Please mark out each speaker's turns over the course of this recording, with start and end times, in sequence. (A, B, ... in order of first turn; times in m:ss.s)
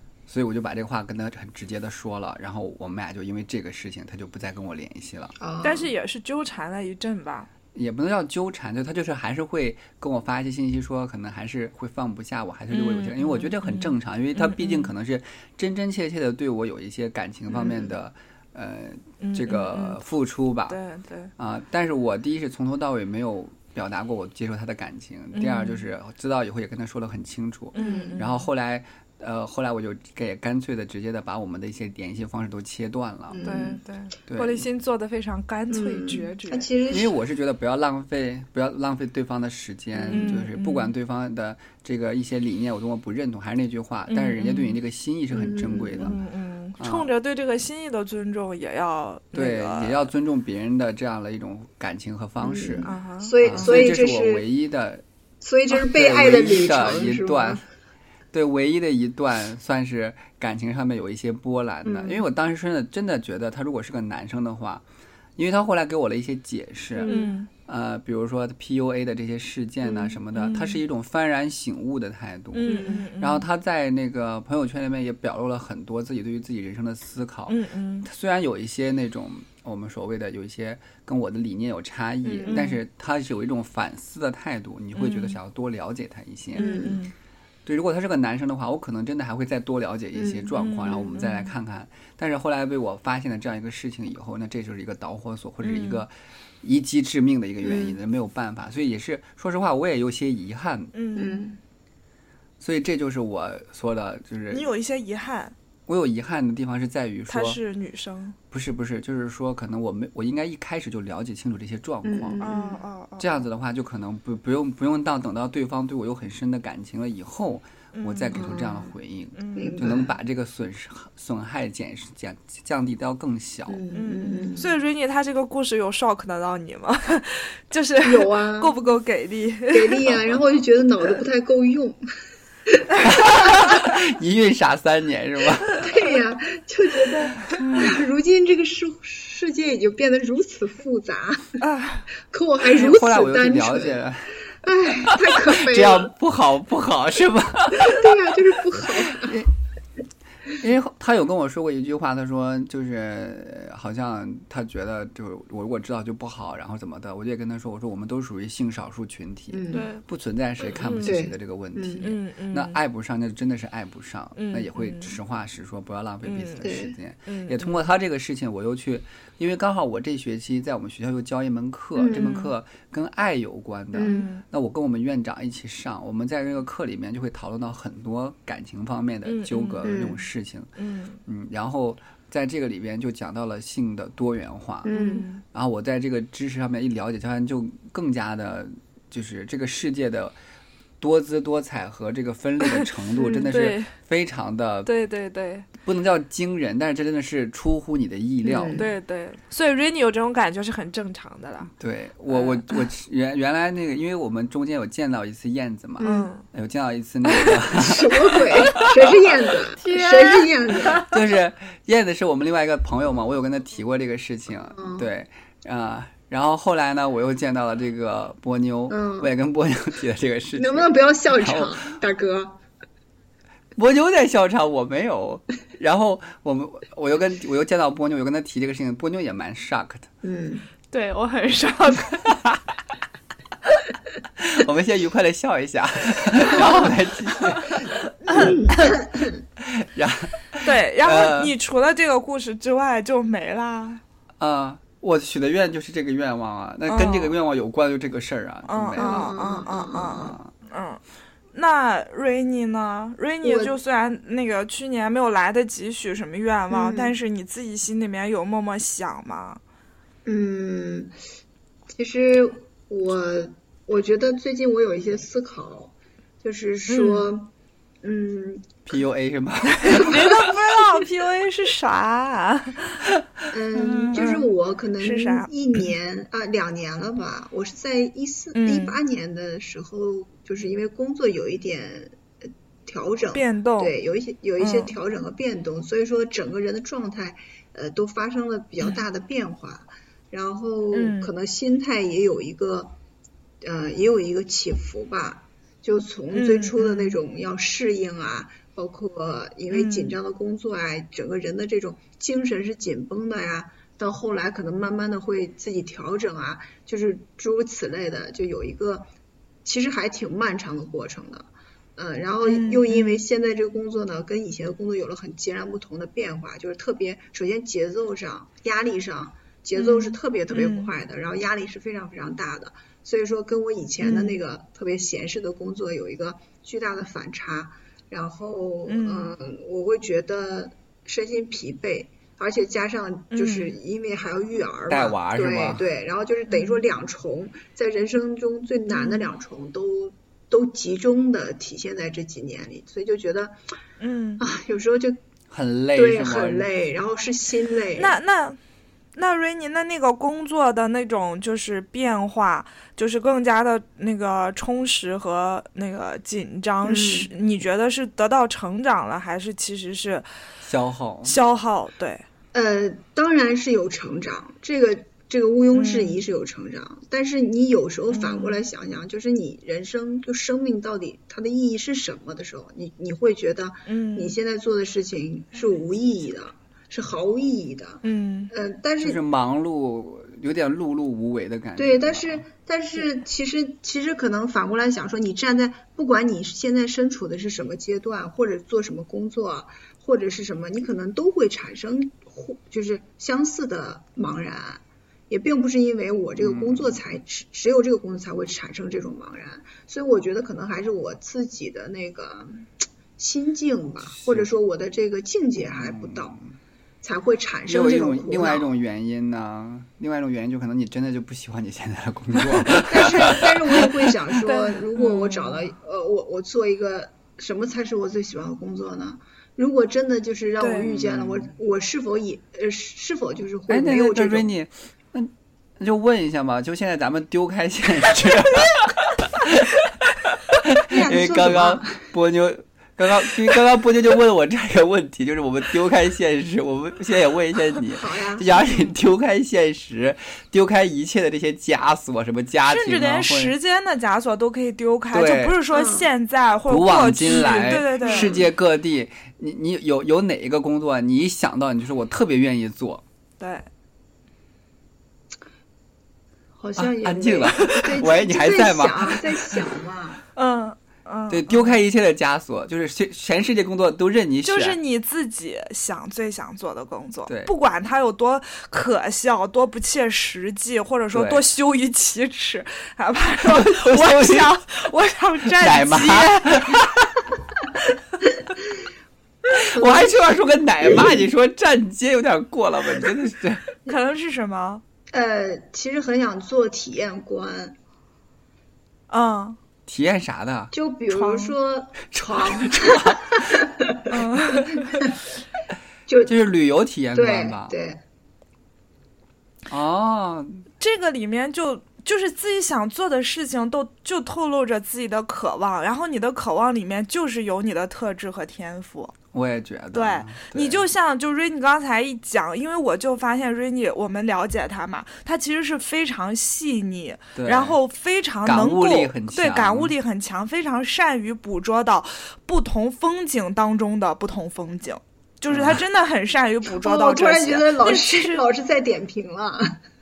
0:00.3-0:05.3 A
0:05.4-0:05.9 B
0:05.6-0:07.5 C
0:07.8-0:20.8 A
0:12.7-0:14.9 C
0:19.2-0:20.0 C
0:20.7-0:21.3 C
0:21.4-0:33.4 A
0:25.3-0:25.8 C
0:27.7-0:28.4 C
0:27.8-0:28.2 B
0:33.3-0:33.8 B
0:33.4-0:36.7 C
0:34.3-0:34.6 A
0:35.7-0:37.1 B
0:36.9-0:46.2 A
0:39.9-0:40.4 B
0:40.1-0:40.9 C
0:44.1-0:44.8 C
0:45.3-0:46.1 B
0:46.0-0:50.1 C
0:46.8-0:47.1 A
0:49.3-0:52.9 A
0:52.4-0:54.4 B
0:52.8-0:53.9 C
0:53.4-0:55.0 A
0:55.4-0:57.6 B
0:55.7-0:57.6 A
0:58.3-1:04.8 A
1:01.8-1:02.3 B
1:05.4-1:07.1 A
1:07.0-1:07.3 B
1:07.0-1:07.5 C
1:07.7-1:26.7 A
1:09.9-1:10.2 B
1:10.3-1:10.8 C
1:12.5-1:13.5 C
1:12.6-1:13.0 B
1:17.5-1:18.1 C
1:22.2-1:22.7 B
1:22.5-1:22.8 C
1:25.0-1:25.4 C
1:26.6-1:27.1 C
1:26.6-1:27.0 B
1:27.7-1:36.1 A
1:30.2-1:31.0 B
1:30.6-1:31.5 C
1:35.6-1:36.0 C
1:36.6-1:40.9 A
1:37.6-1:38.0 B
1:40.9-1:41.5 C
1:41.2-1:41.6 B
1:42.6-1:44.7 A
1:44.5-1:45.6 C
1:45.9-1:47.6 A
1:47.3-1:48.4 C
1:48.5-1:52.4 A
1:52.0-1:52.8 B
1:52.4-1:53.3 C
1:53.2-2:03.8 A
1:58.0-1:58.4 C
1:58.3-1:58.9 B
1:59.4-1:59.8 C
1:59.6-2:00.2 B
2:03.7-2:04.7 B
2:03.9-2:10.1 C
2:08.0-2:08.8 B
2:09.7-2:12.0 B
2:12.7-2:13.1 B
2:13.0-2:15.8 A
2:15.8-2:21.6 B
2:17.5-2:18.0 C
2:21.6-2:22.1 C
2:22.3-2:24.0 B
2:22.6-2:24.4 A
2:24.6-2:26.1 B
2:25.0-2:28.1 A
2:27.8-2:29.4 B
2:28.8-2:29.5 A
2:30.6-3:00.7 A
2:39.5-2:39.9 B
2:39.7-2:40.0 C
2:40.8-2:41.1 C
2:41.0-2:42.1 B
2:42.0-2:42.8 C
2:44.4-2:45.2 C
2:46.2-2:47.8 C
2:46.6-2:47.0 B
2:52.0-2:52.4 B
2:52.1-2:52.5 C
2:54.0-2:54.3 B
2:54.0-2:54.4 C
2:59.3-3:00.0 C
2:59.8-3:00.2 B
3:00.8-3:01.2 C
3:01.3-3:10.4 A
3:04.8-3:05.2 B
3:04.9-3:05.4 C
3:11.0-3:14.9 A
3:12.7-3:13.9 C
3:14.8-3:15.7 C
3:15.8-3:18.8 A
3:18.4-3:18.9 B
3:18.8-3:21.7 C
3:21.7-3:29.1 A
3:22.3-3:22.7 C
3:26.0-3:26.3 B
3:26.0-3:26.4 C
3:27.3-3:27.6 C
3:27.7-3:31.1 B
3:28.6-3:28.9 C
3:29.8-3:31.1 C
3:31.0-3:41.8 A
3:34.7-3:35.1 B
3:38.9-3:39.3 B
3:40.6-3:42.6 B
3:43.8-3:50.1 A
3:50.2-3:50.7 B
3:50.9-3:52.3 C
3:52.3-3:52.6 A
3:54.4-3:58.8 A
3:58.3-3:59.4 B
3:59.6-4:01.5 A
4:00.6-4:04.0 C
4:04.4-4:09.4 A
4:06.9-4:07.4 C
4:08.7-4:11.0 C
4:09.0-4:10.4 B
4:10.1-4:10.5 A
4:11.5-4:19.6 C
4:13.4-4:13.8 B
4:16.7-4:17.1 B
4:20.2-4:21.1 B
4:22.0-4:28.8 B
4:26.9-4:27.3 C
4:28.9-4:30.5 A
4:29.8-4:33.0 C
4:33.5-4:42.2 B
4:33.8-4:34.5 C
4:35.0-4:35.5 C
4:38.5-4:39.0 C
4:42.9-4:53.0 B
4:43.3-4:43.9 C
4:44.6-4:44.9 C
4:50.9-4:51.3 C
4:53.6-5:09.1 B
4:56.3-4:57.2 C
4:59.7-5:00.2 C
5:09.6-5:43.6 B
5:12.4-5:13.2 C
5:19.8-5:20.9 C
5:24.0-5:24.4 C
5:28.9-5:29.3 C
5:33.3-5:33.8 C
5:34.9-5:35.9 A
5:36.5-5:36.8 C
5:38.9-5:39.3 C
5:44.0-5:44.5 C
5:44.4-5:45.2 B
5:45.5-5:46.7 A
5:46.0-5:48.2 B
5:48.0-5:48.6 C
5:49.2-6:00.3 C
5:56.8-5:57.3 B
6:00.6-6:01.4 A
6:01.2-6:02.2 C
6:02.5-6:19.2 B
6:05.7-6:06.2 C
6:08.1-6:08.6 C
6:13.9-6:14.4 C
6:18.0-6:18.5 C
6:19.0-6:22.4 A
6:21.8-6:46.4 B
6:36.4-6:37.0 A
6:44.1-6:44.5 A
6:45.6-6:46.5 A
6:47.0-6:48.7 B
6:47.7-6:54.1 A
6:52.8-7:04.5 B
6:54.4-6:55.6 C
7:00.6-7:00.9 C
7:00.8-7:01.5 A
7:03.7-7:09.8 A
7:10.5-7:23.5 A
7:10.9-7:12.1 B
7:17.9-7:18.8 B
7:22.7-7:28.4 C
7:25.1-7:25.6 A
7:25.7-7:26.1 B
7:26.7-7:33.0 A
7:28.0-7:28.5 B
7:33.4-7:33.7 C
7:36.6-7:40.2 B
7:36.8-7:39.6 A
7:37.6-7:37.9 C
7:40.4-7:41.8 C
7:41.3-7:44.8 A
7:44.4-7:56.8 C
7:51.1-7:51.4 A
7:53.4-7:54.5 A
7:55.5-7:57.2 A
7:59.7-8:00.2 B
7:59.7-8:03.6 A
8:00.8-8:01.2 B
8:03.8-8:04.8 C
8:05.1-8:07.8 B
8:09.1-8:09.6 C
8:09.9-8:10.7 A
8:10.7-8:15.2 B
8:11.1-8:11.6 C
8:12.1-8:13.6 A
8:14.1-8:15.0 C
8:16.1-8:16.4 B
8:16.3-8:17.7 A
8:17.1-8:18.0 B
8:19.7-8:20.6 A
8:20.8-8:29.1 C
8:29.3-8:30.9 A
8:29.9-8:48.4 C
8:37.4-8:37.8 A
8:38.4-8:39.9 A
8:45.5-8:45.8 A
8:46.8-8:49.8 B